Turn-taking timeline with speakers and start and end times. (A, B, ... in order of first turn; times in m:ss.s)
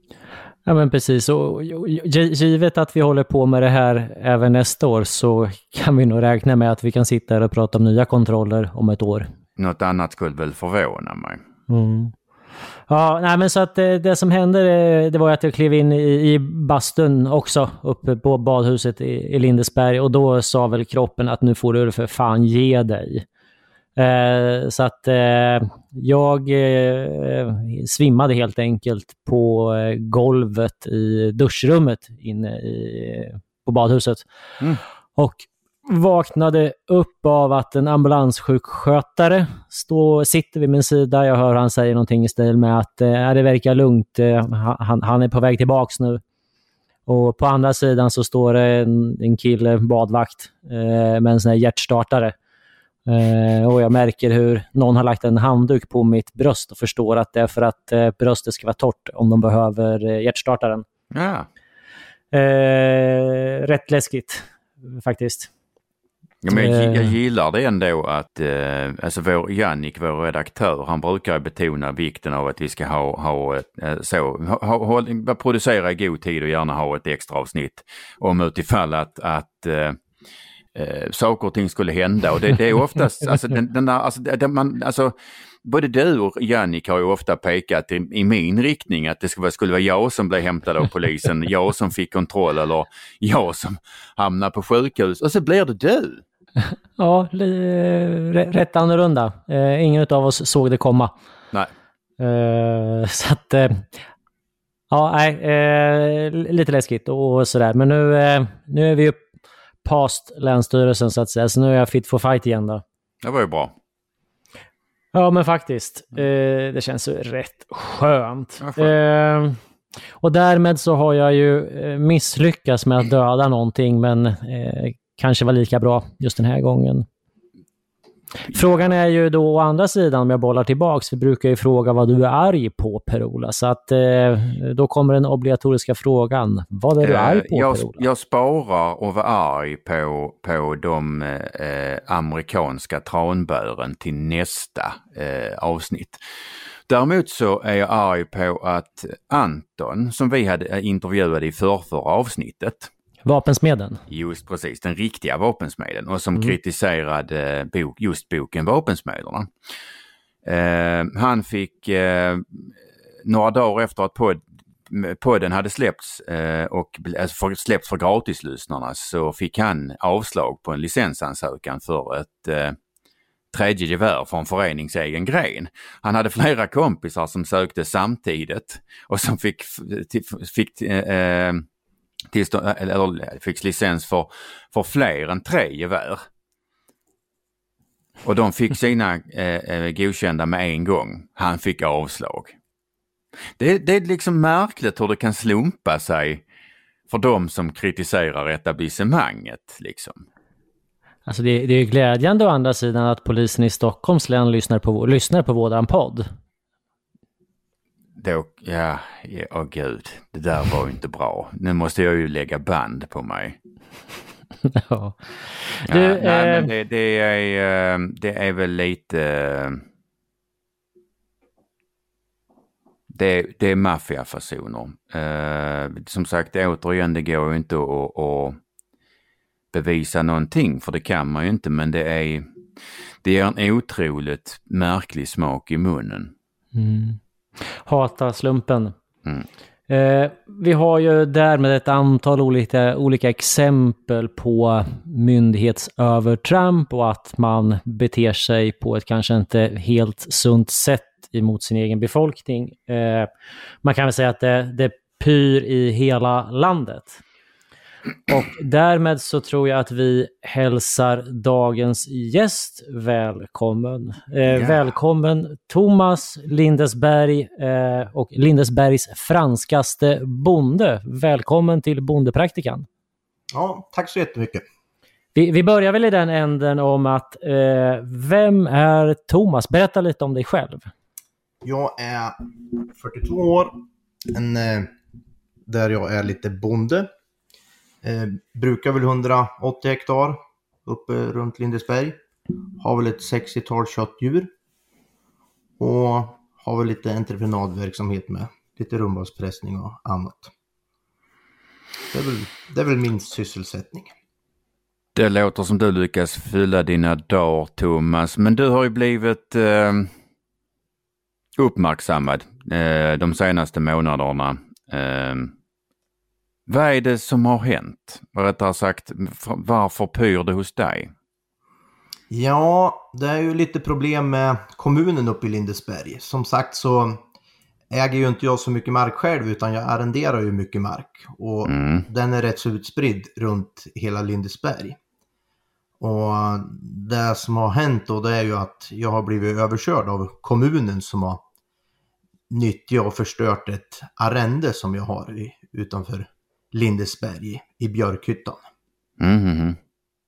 0:00.6-0:09.3 A
0:09.6-0:11.4 B
0:11.7-0:12.1 A
0:12.9-0:23.2 A
0:24.0-0:34.2 A
0:35.2-0:46.2 A
0:47.1-0:52.3 A
0:53.1-1:00.8 A
1:01.1-1:01.5 B
1:02.3-1:05.5 A
1:06.4-1:20.0 B
1:06.5-1:07.1 A
1:20.7-1:36.2 B
1:37.0-1:41.1 A
1:42.2-1:43.8 A
1:44.9-1:49.2 A
1:49.8-1:52.8 A
1:53.2-1:53.7 B
1:55.1-1:59.6 A
1:58.6-1:58.9 B
2:00.2-2:07.0 A
2:08.5-2:18.0 A
2:17.0-2:26.2 B
2:26.9-2:32.9 B
2:33.2-2:34.0 A
2:34.1-2:39.5 B
2:40.4-2:42.7 B
2:43.2-2:52.8 B
2:53.5-3:01.6 B
3:02.3-3:06.2 B
3:08.2-3:12.5 B
3:13.6-3:16.4 B
3:17.1-3:20.2 B
3:21.2-3:26.2 A
3:28.2-3:33.6 B
3:34.6-3:36.7 A
3:35.9-3:39.8 B
3:43.1-3:48.6 B
3:49.7-3:52.4 B
3:53.2-3:56.3 B
3:56.7-3:58.9 A
3:59.9-4:13.3 A
4:13.8-4:17.2 A
4:18.3-4:32.9 A
4:33.5-4:34.6 C
4:35.3-4:40.9 A
4:41.6-4:43.8 C
4:44.3-4:44.9 C
4:45.7-4:47.1 C
4:48.0-4:52.2 C
4:52.8-4:54.5 C
4:55.8-5:00.5 C
5:02.1-5:04.1 C
5:05.1-5:10.1 B
5:11.6-5:15.5 B
5:16.7-5:21.1 B
5:22.3-5:27.2 C
5:27.9-5:35.0 C
5:31.6-5:32.1 B
5:36.0-5:41.4 C
5:42.5-5:48.6 C
5:49.2-5:49.8 B